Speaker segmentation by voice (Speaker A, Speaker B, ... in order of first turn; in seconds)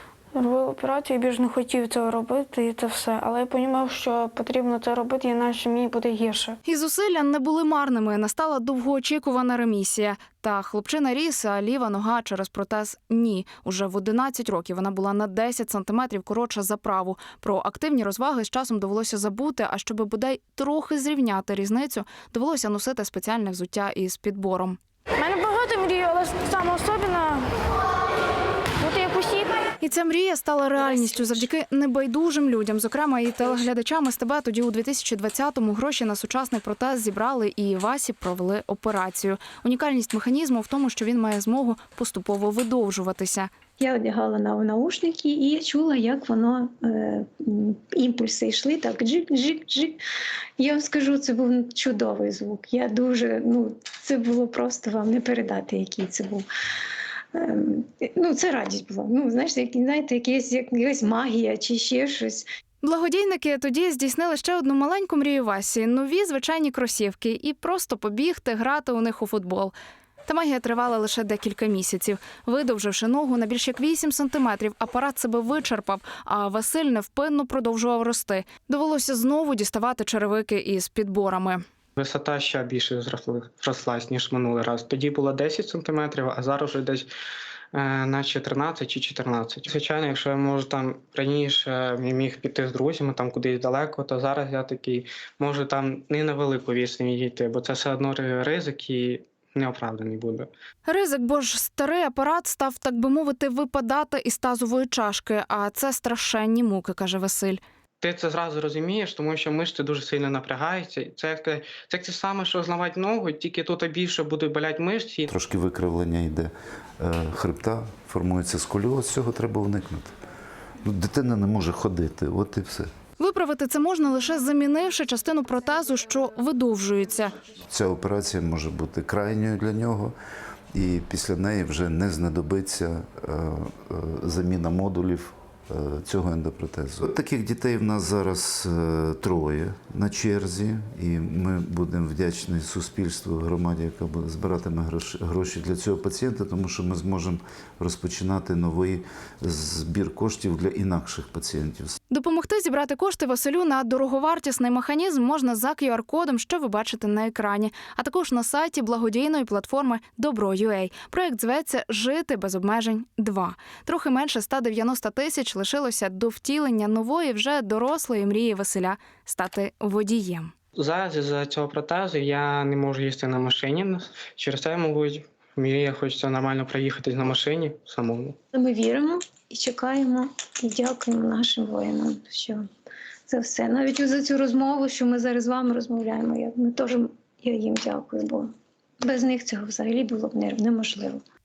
Speaker A: 0.3-6.6, 25.2-27.4, 28.8-29.6
Speaker B: 6.6-24.8, 29.8-43.5, 62.8-69.7, 70.2-81.6, 100.8-107.6, 123.2-127.3, 152.1-170.5
Speaker C: 43.8-50.0, 50.6-56.4, 57.3-62.4, 178.5-182.7, 183.3-188.5, 189.0-191.2
Speaker D: 82.0-87.1, 87.7-100.5, 108.0-115.3, 170.8-178.4
Speaker E: 115.3-120.1, 120.8-122.9, 127.7-130.1, 130.7-152.0